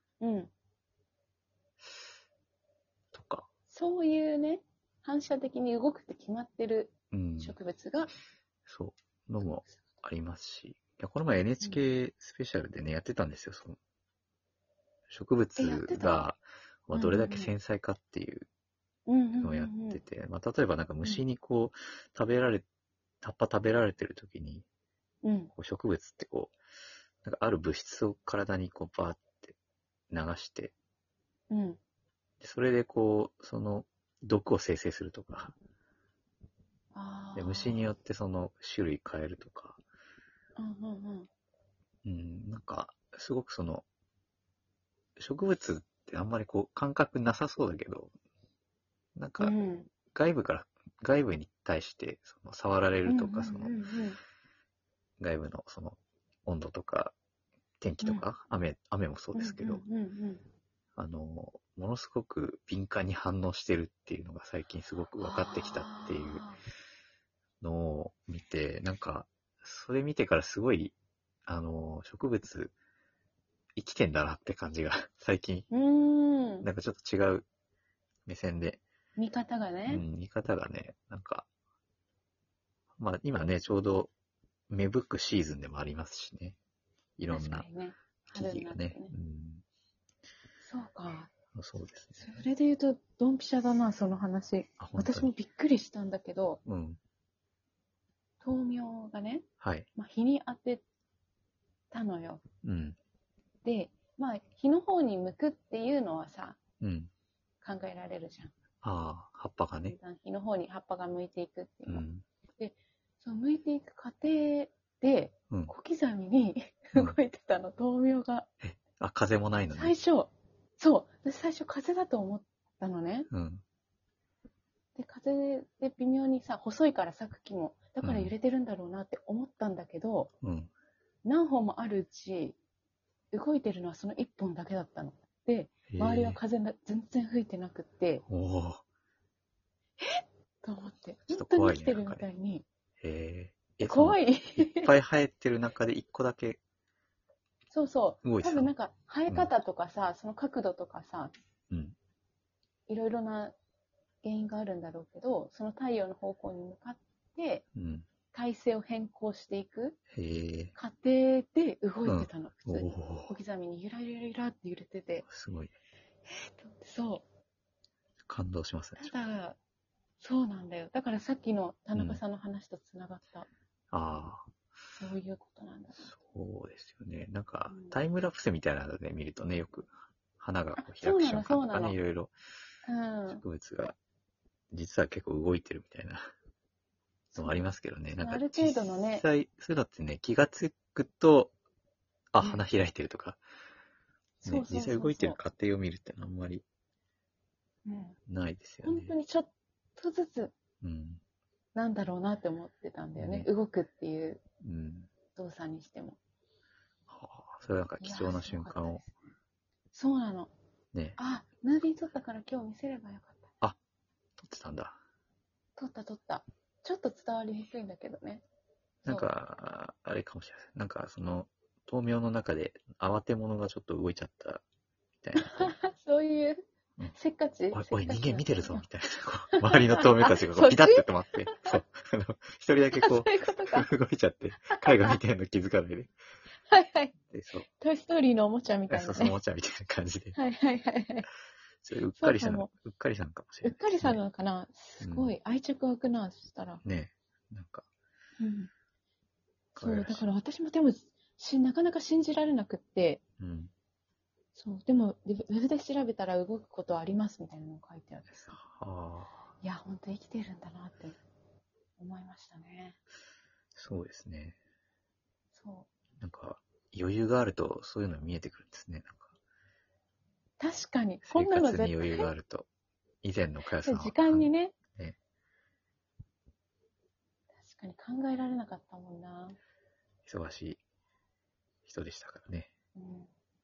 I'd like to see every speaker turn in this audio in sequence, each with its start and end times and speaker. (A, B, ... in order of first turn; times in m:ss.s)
0:00.2-0:00.5 A
0:03.1-0:03.5 B
0:03.7-0:08.1 A
0:07.1-0:07.6 B
0:08.7-0:13.8 B
0:15.1-0:18.5 B
0:15.6-0:16.3 A
0:16.9-0:17.5 A
0:19.1-0:20.0 A
0:19.4-0:22.6 B
0:23.2-0:24.7 B
0:25.2-0:25.5 A
0:25.6-0:26.6 B
0:27.2-0:29.6 B
0:30.1-0:30.7 B
0:31.5-0:31.8 A
0:32.4-0:35.6 B
0:36.9-0:37.8 A
0:37.4-0:39.8 B
0:40.6-0:41.3 A
0:42.0-0:43.8 B
0:45.2-0:48.1 B
0:49.2-0:49.6 B
0:49.4-0:49.9 A
0:50.1-0:53.8 B
0:53.0-0:54.2 A
0:55.2-0:57.1 B
0:57.8-0:59.8 B
0:59.3-1:00.4 A
1:01.0-1:06.5 B
1:05.2-1:06.6 A
1:07.6-1:11.0 B
1:11.5-1:12.7 B
1:13.8-1:15.7 B
1:15.7-1:16.7 A
1:16.6-1:17.5 B
1:18.3-1:18.8 B
1:19.2-1:20.1 A
1:19.9-1:21.5 B
1:23.0-1:24.1 B
1:24.7-1:26.6 B
1:27.2-1:27.7 B
1:27.3-1:29.1 A
1:28.3-1:29.6 B
1:30.6-1:31.3 A
1:31.5-1:32.5 B
1:32.2-1:36.6 A
1:34.8-1:35.3 B
1:36.7-1:37.0 B
1:38.4-1:40.8 A
1:39.6-1:39.9 B
1:41.9-1:42.4 A
1:42.6-1:43.0 B
1:43.6-1:46.6 A
1:46.8-1:47.1 B
1:47.6-1:48.5 A
1:48.8-1:50.0 B
1:49.8-1:52.1 A
1:51.9-1:52.2 B
1:52.6-1:58.5 A
1:58.6-2:00.0 B
1:59.8-2:03.3 A
2:03.3-2:03.6 B
2:05.0-2:10.3 A
2:08.0-2:08.3 B
2:10.4-2:10.7 B
2:11.2-2:12.6 A
2:13.3-2:18.2 A
2:15.9-2:16.4 B
2:18.3-2:18.8 B
2:20.0-2:22.6 A
2:21.3-2:22.3 B
2:23.0-2:26.6 B
2:23.8-2:24.9 A
2:27.7-2:31.3 A
2:28.2-2:28.7 B
2:31.7-2:32.0 B
2:32.9-2:33.6 A
2:34.2-2:37.6 A
2:37.8-2:38.1 B
2:38.3-2:40.0 A
2:40.1-2:40.8 B
2:40.8-2:45.3 A
2:42.0-2:43.4 B
2:45.3-2:45.7 B
2:46.3-2:47.2 A
2:48.3-2:49.2 B
2:49.0-2:49.6 A
2:50.2-2:53.5 A
2:52.0-2:52.2 B
2:53.9-2:54.5 B
2:54.9-2:56.1 A
2:56.0-3:02.3 B
2:57.7-2:58.0 A
3:00.8-3:02.0 A
3:02.8-3:03.4 A
3:03.3-3:04.0 B
3:04.7-3:06.3 B
3:07.3-3:07.7 A
3:07.4-3:11.5 B
3:08.2-3:09.3 A
3:12.3-3:13.4 B
3:14.4-3:15.4 A
3:14.4-3:16.6 B
3:17.8-3:18.2 A
3:18.3-3:19.2 B
3:18.8-3:20.5 A
3:20.8-3:21.2 B
3:21.8-3:24.4 A
3:23.2-3:23.5 B
3:24.6-3:25.1 B
3:25.4-3:26.2 A
3:27.1-3:29.0 B
3:28.0-3:29.3 A
3:29.9-3:30.5 A
3:30.9-3:31.2 B
3:31.2-3:33.5 A
3:34.4-3:35.0 B
3:35.8-3:38.4 A
3:39.0-3:44.6 B
3:45.2-3:45.8 B
3:45.4-3:48.8 A
3:47.7-3:56.1 B
3:49.5-3:51.8 A
3:53.0-3:53.9 A
3:54.7-3:55.2 A
3:56.7-3:57.1 A
3:57.3-3:57.7 B
3:57.8-3:59.4 A
3:58.9-4:00.4 B
4:00.3-4:01.3 A
4:01.8-4:04.2 B
4:02.2-4:02.7 A
4:03.6-4:06.8 A
4:05.0-4:05.3 B
4:06.8-4:07.9 B
4:08.4-4:08.7 A
4:09.8-4:10.3 B
4:09.8-4:13.2 A
4:13.4-4:13.7 B
4:14.6-4:18.6 A
4:18.3-4:19.5 B
4:19.6-4:21.2 A
4:22.0-4:23.0 A
4:23.8-4:24.6 B
4:25.6-4:25.9 A
4:26.2-4:29.3 B
4:30.6-4:32.3 A
4:31.2-4:32.7 B
4:33.2-4:35.2 B
4:33.8-4:34.8 A
4:37.6-4:39.6 A
4:40.3-4:40.8 B
4:41.9-4:42.7 B
4:43.0-4:43.3 A